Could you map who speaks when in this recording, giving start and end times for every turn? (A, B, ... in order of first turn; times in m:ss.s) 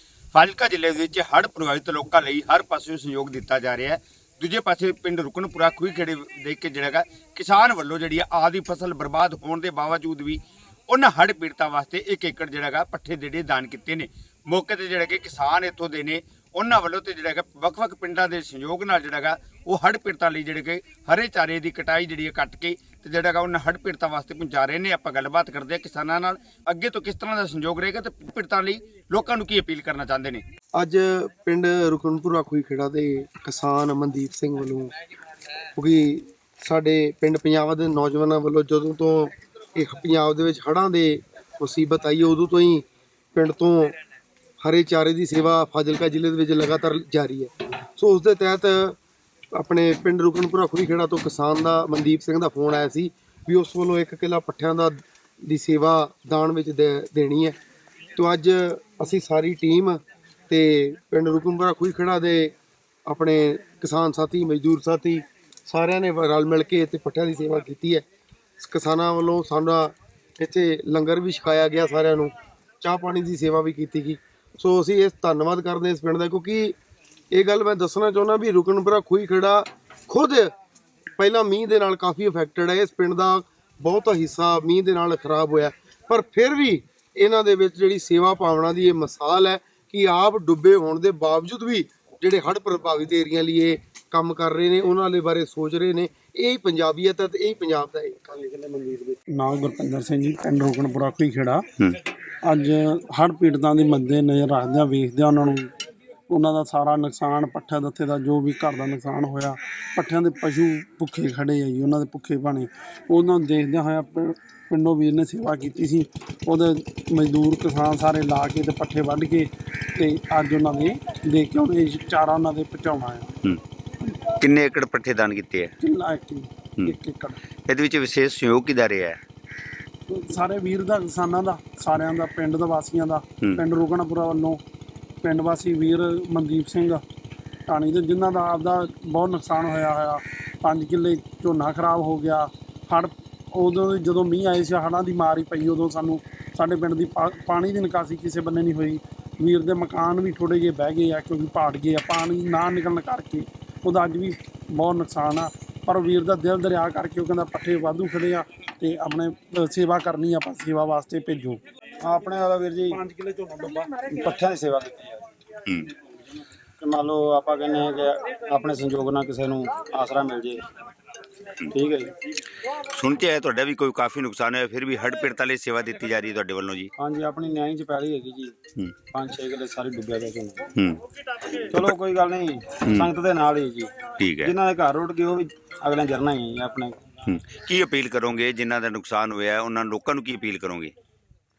0:00.3-0:30.4 A
0:30.8-0:34.9 B
0:35.8-0:44.0 B
0:44.6-0:49.0 B
0:49.5-0:57.6 B
0:58.2-1:02.5 B
1:03.1-1:08.0 B
1:08.6-1:16.8 B
1:17.3-1:20.5 B
1:21.2-1:39.2 B
1:39.3-1:41.6 C
1:42.4-1:45.7 C
1:46.3-2:03.3 C
2:04.4-2:05.7 A
2:05.8-2:07.4 C
2:07.7-2:09.2 A
2:10.1-2:14.6 C
2:15.2-2:17.0 C
2:17.7-2:41.6 C
2:42.0-2:43.1 D
2:43.0-2:44.0 C
2:44.0-2:45.3 D
2:45.6-2:45.9 A
2:46.8-2:50.7 D
2:51.7-2:52.1 D
2:52.9-2:56.9 A
2:57.0-2:58.6 D
2:59.1-3:00.7 D
3:01.8-3:07.0 D
3:02.8-3:03.1 A
3:04.2-3:04.5 A
3:07.3-3:10.9 A